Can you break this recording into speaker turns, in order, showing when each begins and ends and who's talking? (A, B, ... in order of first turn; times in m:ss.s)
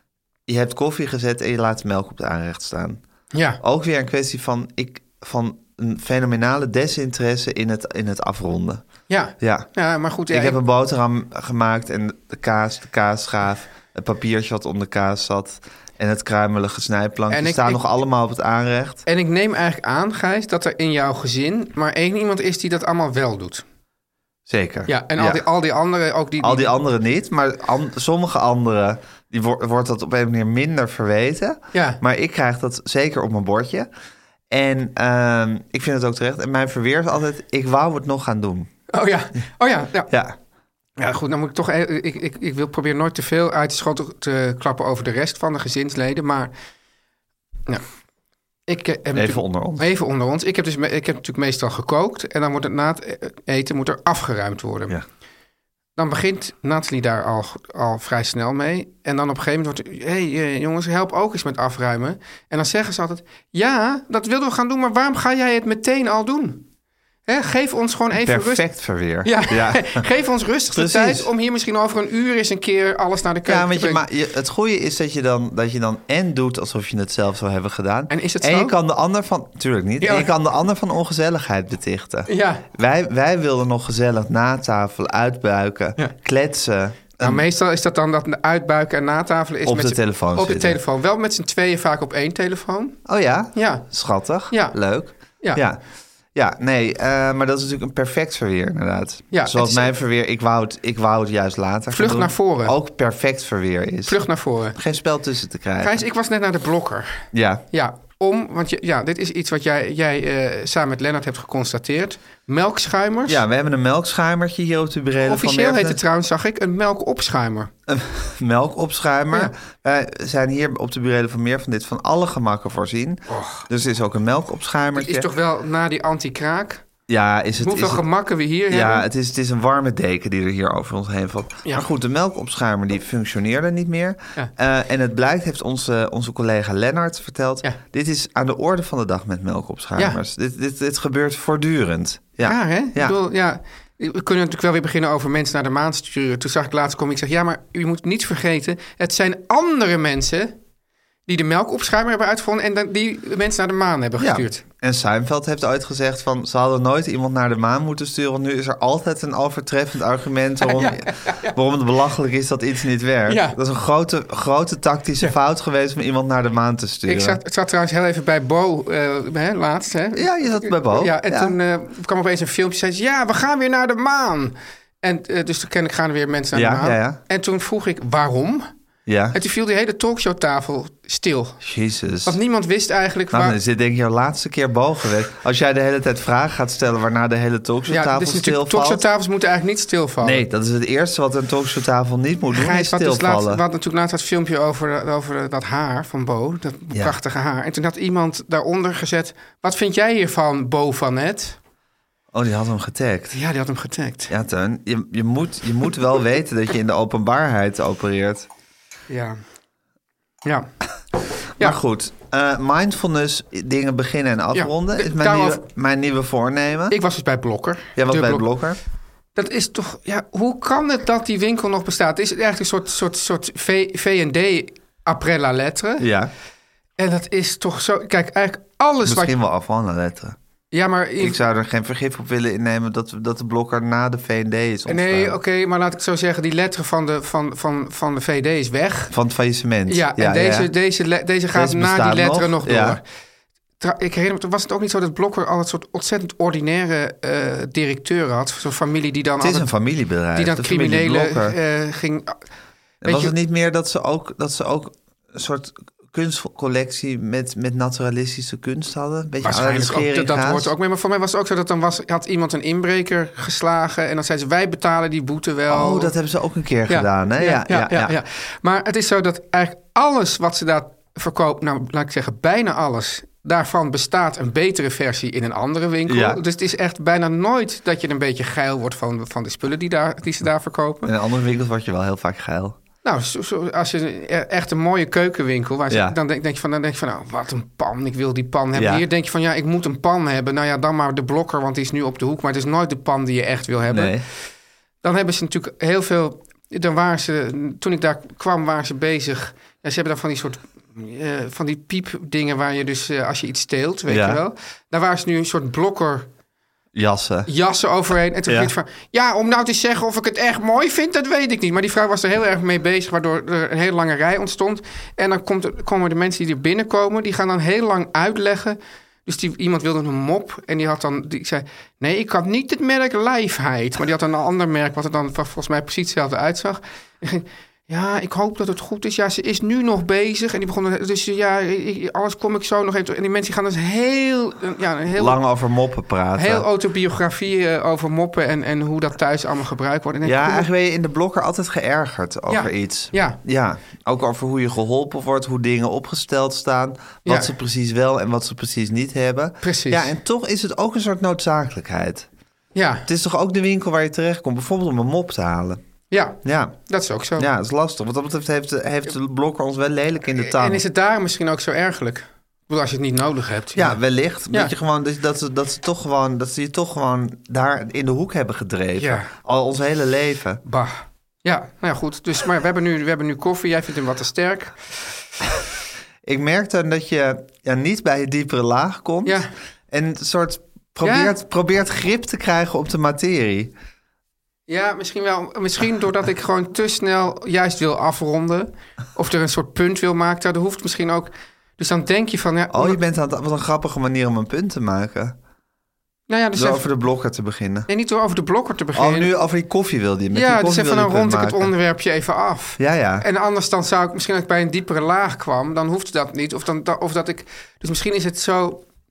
0:00.5-0:03.0 A
0:03.3-0:03.6 B
0:03.6-0:08.8 A
0:09.1-0:10.6 B
0:09.4-0:09.7 A
0:10.3-0:19.0 A
0:17.3-0:17.8 B
0:19.0-0:23.6 B
0:24.5-0:25.4 A
0:24.9-0:26.7 B
0:26.4-0:33.9 A
0:31.7-0:32.0 B
0:34.5-0:38.7 A
0:38.9-0:40.1 B
0:40.1-0:40.4 A
0:41.0-0:46.5 B
0:48.7-0:55.0 B
0:49.1-0:49.9 A
0:56.0-1:06.6 B
1:07.3-1:08.6 B
1:08.1-1:10.0 A
1:09.2-1:14.0 B
1:10.7-1:11.3 A
1:13.4-1:27.4 A
1:18.1-1:18.7 B
1:20.0-1:20.3 B
1:22.3-1:22.6 B
1:27.2-1:33.0 B
1:29.6-1:30.8 A
1:33.0-1:35.8 A
1:33.5-1:33.8 B
1:34.5-1:34.8 B
1:36.3-1:44.2 A
1:39.3-1:39.9 B
1:41.9-1:42.7 B
1:44.0-1:44.8 B
1:44.7-1:46.0 A
1:45.8-1:53.4 B
1:47.3-1:47.6 A
1:53.2-1:56.0 A
1:55.2-1:57.7 B
1:57.9-2:05.3 A
2:03.3-2:03.6 B
2:05.0-2:06.8 B
2:07.1-2:08.0 A
2:07.6-2:09.0 B
2:08.7-2:23.2 A
2:22.4-2:30.6 B
2:31.3-2:34.6 B
2:34.2-2:47.4 A
2:40.6-2:41.5 B
2:43.3-2:43.6 B
2:47.1-2:58.7 B
2:50.1-2:51.5 A
2:56.5-2:57.2 A
2:59.0-2:59.4 A
2:59.3-3:01.6 B
3:01.6-3:02.4 A
3:02.2-3:03.6 B
3:03.3-3:09.0 A
3:07.9-3:10.4 B
3:10.2-3:13.6 A
3:12.5-3:21.6 B
3:22.3-3:23.4 A
3:23.3-3:24.3 B
3:24.3-3:28.5 A
3:29.1-3:29.4 B
3:31.6-3:37.0 A
3:34.5-3:35.6 B
3:36.9-3:38.5 B
3:38.0-3:38.8 A
3:39.3-3:46.0 B
3:46.0-3:46.3 A
3:47.0-3:49.3 B
3:49.0-3:50.4 A
3:50.7-3:51.4 B
3:51.2-3:55.4 A
3:54.9-3:59.1 B
3:59.1-4:00.7 A
3:59.9-4:03.0 B
4:01.5-4:03.0 A
4:03.8-4:09.7 B
4:09.4-4:11.6 A
4:10.3-4:12.4 B
4:13.0-4:20.7 A
4:13.0-4:13.3 B
4:19.4-4:26.1 B
4:25.7-4:28.2 A
4:26.9-4:41.1 B
4:36.1-4:36.4 A
4:41.0-4:42.8 A
4:43.0-4:54.2 B
4:45.9-4:46.2 A
4:48.7-4:49.0 A
4:53.9-4:54.2 A
4:55.0-5:06.3 B
5:04.1-5:04.4 A
5:06.9-5:07.5 A
5:07.5-5:35.4 B
5:08.5-5:08.7 A
5:35.1-5:36.6 A
5:36.4-5:40.7 B
5:40.2-5:52.3 A
5:42.5-5:43.4 B
5:47.2-5:47.5 B
5:49.6-5:50.1 B
5:52.7-5:53.0 B
5:53.0-5:55.8 A
5:56.1-5:57.5 B
5:56.4-5:56.8 A
5:57.4-6:00.8 A
6:00.4-6:04.0 B
6:03.7-6:10.6 A
6:09.0-6:09.3 B
6:10.6-6:15.0 B
6:16.2-6:23.7 A
6:19.2-6:19.5 B
6:21.0-6:21.3 B
6:24.7-6:33.0 B
6:32.7-6:35.4 A
6:36.3-6:36.8 B
6:36.5-6:37.9 A
6:37.9-6:39.3 B
6:38.9-6:41.7 A
6:40.3-6:48.8 B
6:42.8-6:43.2 A